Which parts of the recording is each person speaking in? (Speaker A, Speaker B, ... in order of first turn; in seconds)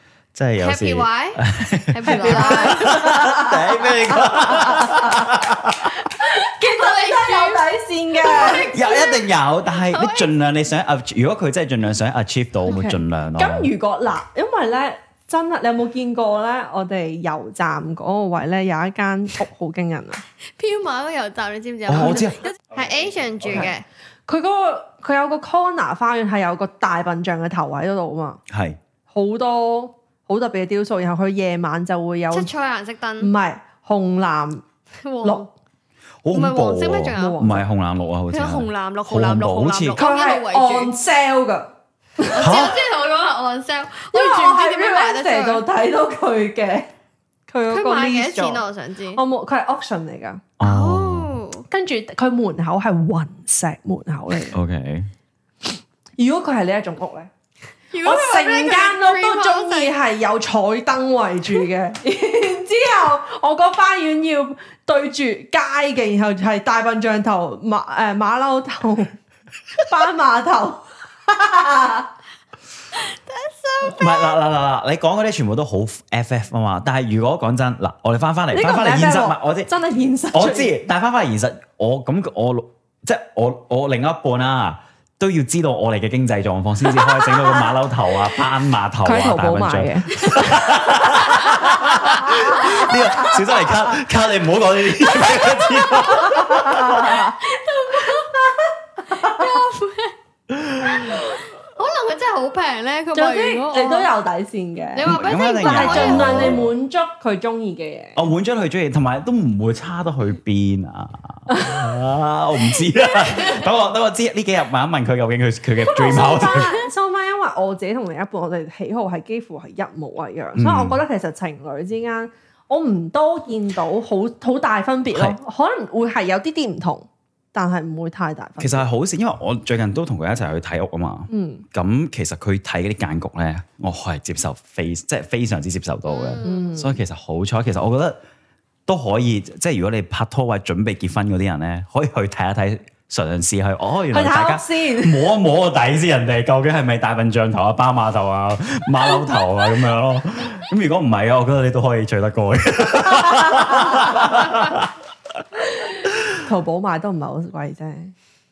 Speaker A: 0.3-6.0, 8.7-13.7, 21.9-22.4, 28.5-28.8, 36.2-40.0, 42.4-42.8, 50.6-51.4, 54.5-55.1, 73.8-79.7, 80.3-97.3, 100.5-101.1, 105.1-106.7, 108.2-116.8, 120.6-121.0, 125.1-125.4, 128.6-138.2, 138.9-154.9
Speaker B: 0.6-3.0, 6.2-10.3, 20.6-23.9, 32.3-33.3, 35.0-35.5, 36.3-37.5, 38.3-41.0, 42.3-45.6, 47.7-49.2, 50.6-51.7, 57.9-59.9, 72.9-74.4, 96.9-98.5, 99.1-100.2, 100.8-104.1, 104.9-106.6, 113.2-113.6, 136.1-136.8
Speaker C: 2.1-8.8, 12.7-20.2, 24.3-28.4, 29.1-32.5, 33.2-34.6, 37.1-37.6, 40.0-42.6, 44.1-46.9, 47.5-50.5, 51.7-54.6, 56.2-57.3, 58.0-69.2, 69.7-72.1, 78.5-80.8, 87.0-87.7, 89.0-91.2, 92.3-93.4, 95.5-97.4, 97.9-99.6, 103.1-108.2, 111.5-111.8, 115.9-128.9, 131.3-131.7, 136.4-137.0, 144.1-145.4, 153.3-154.3, 155.6-158.1